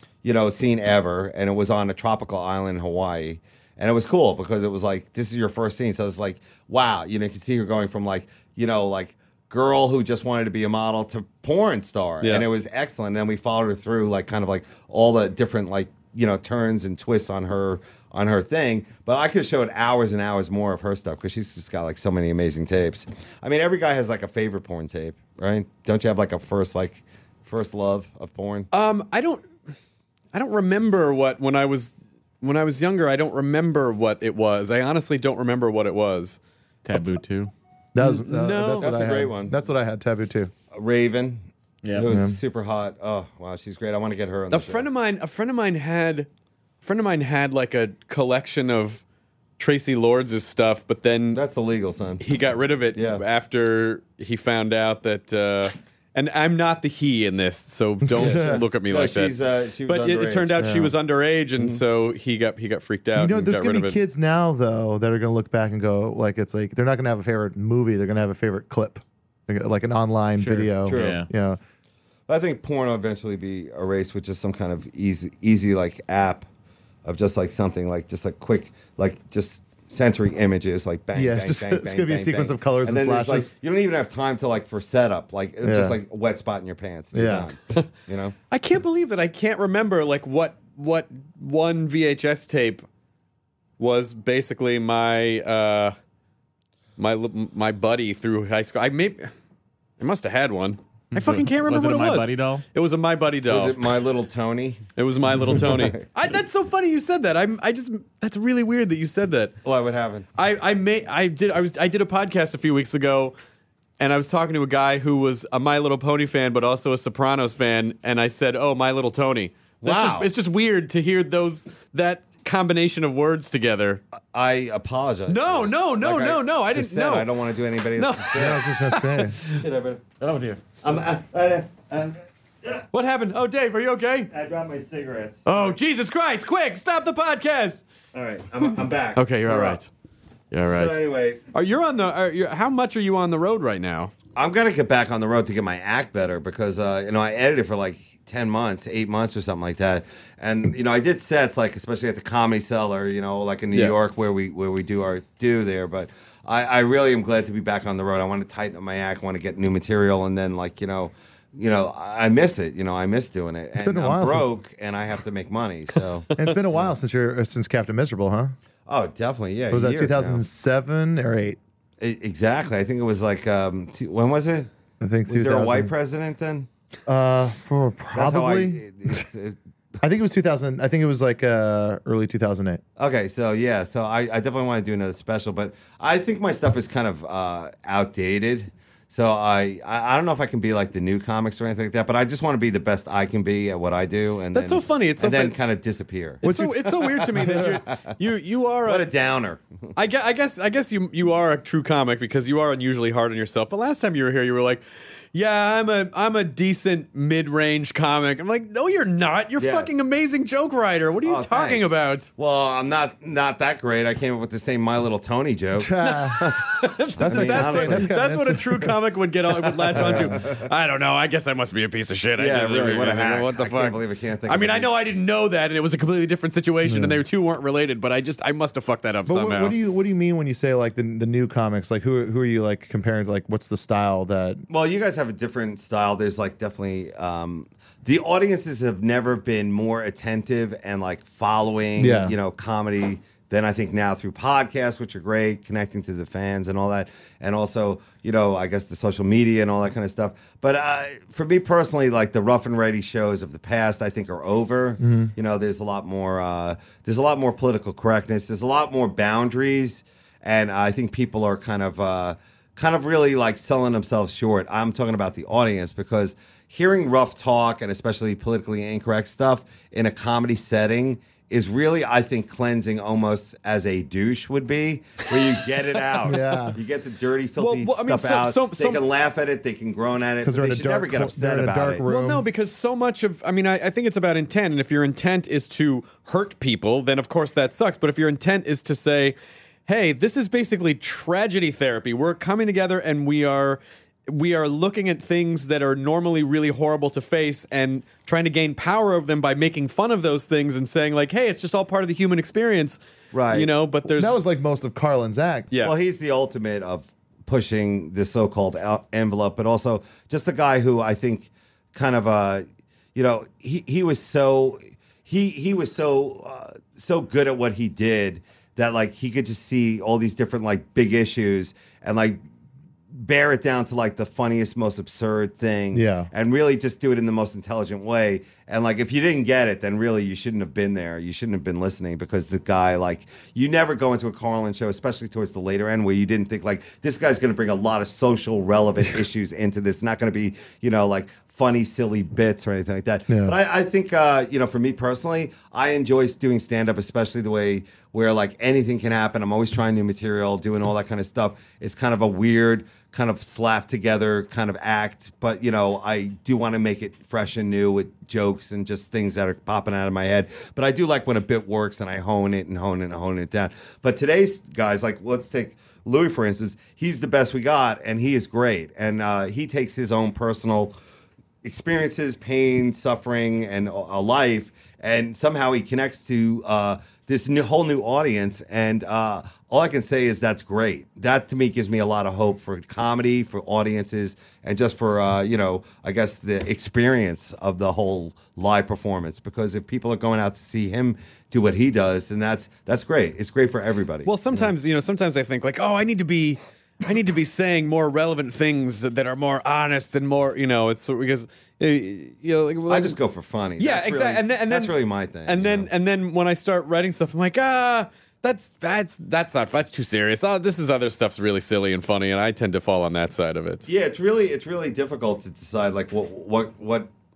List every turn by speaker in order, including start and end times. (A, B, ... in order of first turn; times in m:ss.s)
0:00.2-0:28.7 A
0:12.2-0:12.5 B
0:28.7-0:29.5 B
0:30.3-0:36.4 B
0:36.8-0:37.5 C
0:38.0-0:40.5 D
0:38.0-0:39.0 B
0:38.7-0:39.6 A
0:40.7-0:44.9 A
0:41.8-0:42.1 C
0:42.1-0:42.4 D
0:44.5-0:46.3 B
0:46.8-0:49.0 B
0:49.6-0:51.4 B
0:51.3-0:52.2 A
0:52.2-0:59.4 B
0:52.9-0:53.2 A
0:58.0-0:58.6 D
0:58.2-1:00.6 A
0:59.9-1:04.0 B
1:00.6-1:00.9 D
1:03.2-1:11.6 D
1:10.6-1:11.2 A
1:10.9-1:11.3 C
1:12.3-1:16.5 A
1:17.0-1:28.4 A
1:21.1-1:23.5 D
1:25.6-1:26.0 D
1:27.1-1:27.5 D
1:28.5-1:32.8 B
1:33.8-1:36.0 B
1:37.0-1:39.3 B
1:40.0-1:43.8 B
1:41.1-1:42.6 C
1:43.5-1:46.0 A
1:45.0-1:49.6 B
1:49.6-1:50.3 A
1:50.4-1:53.4 B
1:54.0-2:04.0 B
1:59.8-2:00.3 A
2:04.3-2:08.7 A
2:05.3-2:07.3 B
2:08.0-2:09.6 B
2:08.3-2:09.4 D
2:09.4-2:10.0 A
2:10.2-2:10.6 C
2:10.8-2:12.8 A
2:12.9-2:14.3 B
2:14.3-2:15.8 A
2:15.5-2:17.8 B
2:18.1-2:19.8 A
2:19.2-2:19.9 B
2:20.5-2:21.0 B
2:20.7-2:21.4 A
2:21.5-2:24.1 B
2:24.4-2:46.8 A
2:43.8-2:44.5 D
2:46.4-2:48.6 D
2:48.9-2:50.4 A
2:49.7-2:51.6 D
2:52.0-2:54.7 A
2:55.0-2:55.9 D
2:55.3-2:56.7 A
2:57.1-2:58.8 D
2:58.1-2:59.6 A
3:00.0-3:02.8 D
3:03.0-3:18.1 A
3:14.5-3:15.6 B
3:16.4-3:19.1 B
3:16.4-3:17.8 D
3:18.8-3:19.6 A
3:20.0-3:32.3 B
3:29.6-3:30.0 A
3:31.2-3:38.2 A
3:35.8-3:36.6 D
3:36.2-3:49.8 B
3:37.2-3:39.0 D
3:39.8-3:40.6 A
3:39.9-3:40.4 D
3:42.4-3:44.9 A
3:46.8-3:47.2 D
3:49.3-3:54.6 D
3:54.7-4:42.0 A
4:02.0-4:02.4 D
4:15.0-4:15.3 D
4:36.2-4:36.8 D
4:37.6-4:39.0 B
4:40.4-4:42.5 D
4:42.0-5:03.0 B
5:03.3-5:03.7 A
5:03.5-5:04.4 B
5:04.1-5:05.7 D
5:05.8-5:22.4 A
5:23.1-6:11.0 A
5:25.9-5:26.3 D
5:43.3-5:43.6 D
6:11.6-6:34.7 A
6:34.2-6:43.2 B
6:42.9-6:45.9 A
6:43.8-6:44.9 B
6:45.5-6:53.9 B
6:53.9-6:57.1 A